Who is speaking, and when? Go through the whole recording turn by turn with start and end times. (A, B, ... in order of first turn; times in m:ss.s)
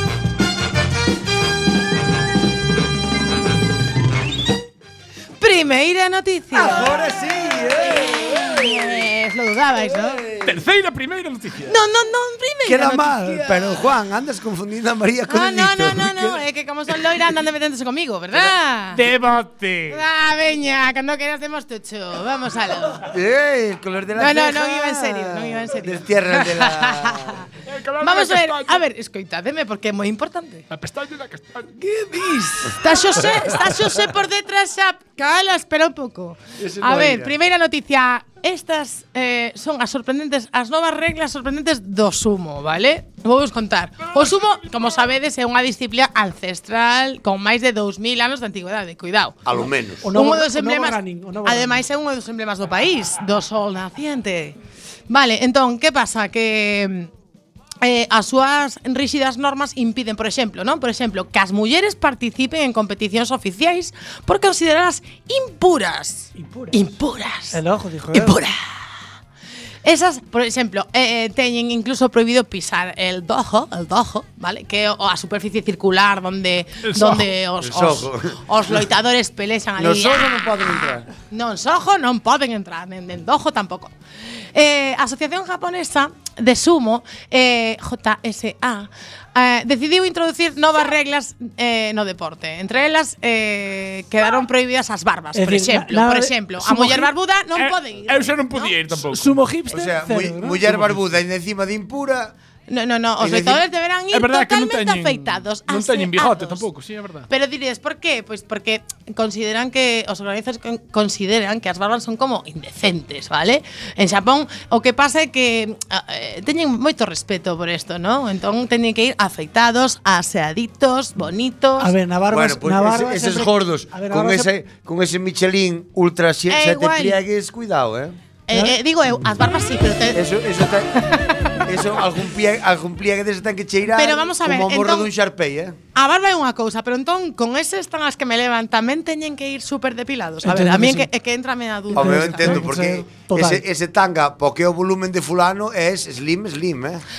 0:05.4-0:07.0 A
0:06.5-0:09.0 B
0:07.8-0:10.3 A
0:09.8-0:10.6 B
0:10.4-0:11.8 C
0:11.7-0:13.8 A
0:12.6-0:16.4 B
0:15.3-0:19.1 A
0:18.9-0:20.0 C
0:19.9-0:23.1 A
0:23.1-0:27.4 B
0:24.2-0:27.5 A
0:27.7-0:28.8 C
0:28.0-0:30.7 A
0:30.7-0:33.5 C
0:32.8-0:49.4 A
0:36.6-0:37.4 B
0:49.4-0:50.1 B
0:50.0-0:51.8 D
0:50.1-0:54.6 A
0:55.1-0:57.1 A
0:57.8-1:07.6 A
1:06.4-1:06.8 D
1:07.5-1:08.4 D
1:08.1-1:08.6 A
1:09.8-1:23.9 A
1:16.8-1:17.3 C
1:17.6-1:18.4 B
1:19.8-1:21.1 B
1:24.6-1:39.0 A
1:35.4-1:37.1 D
1:37.6-1:39.4 C
1:39.1-1:40.9 D
1:39.7-1:42.3 B
1:42.7-1:46.7 A
1:43.2-1:43.6 B
1:44.1-1:47.3 C
1:47.3-2:01.9 A
2:01.8-2:04.5 D
2:02.3-2:08.2 B
2:06.5-2:07.2 A
2:08.5-2:10.3 A
2:08.5-2:08.8 D
2:10.1-2:11.0 B
2:11.6-2:15.8 B
2:13.9-2:15.1 A
2:16.0-2:22.7 A
2:20.4-2:21.1 D
2:21.9-2:23.6 D
2:21.9-2:27.0 B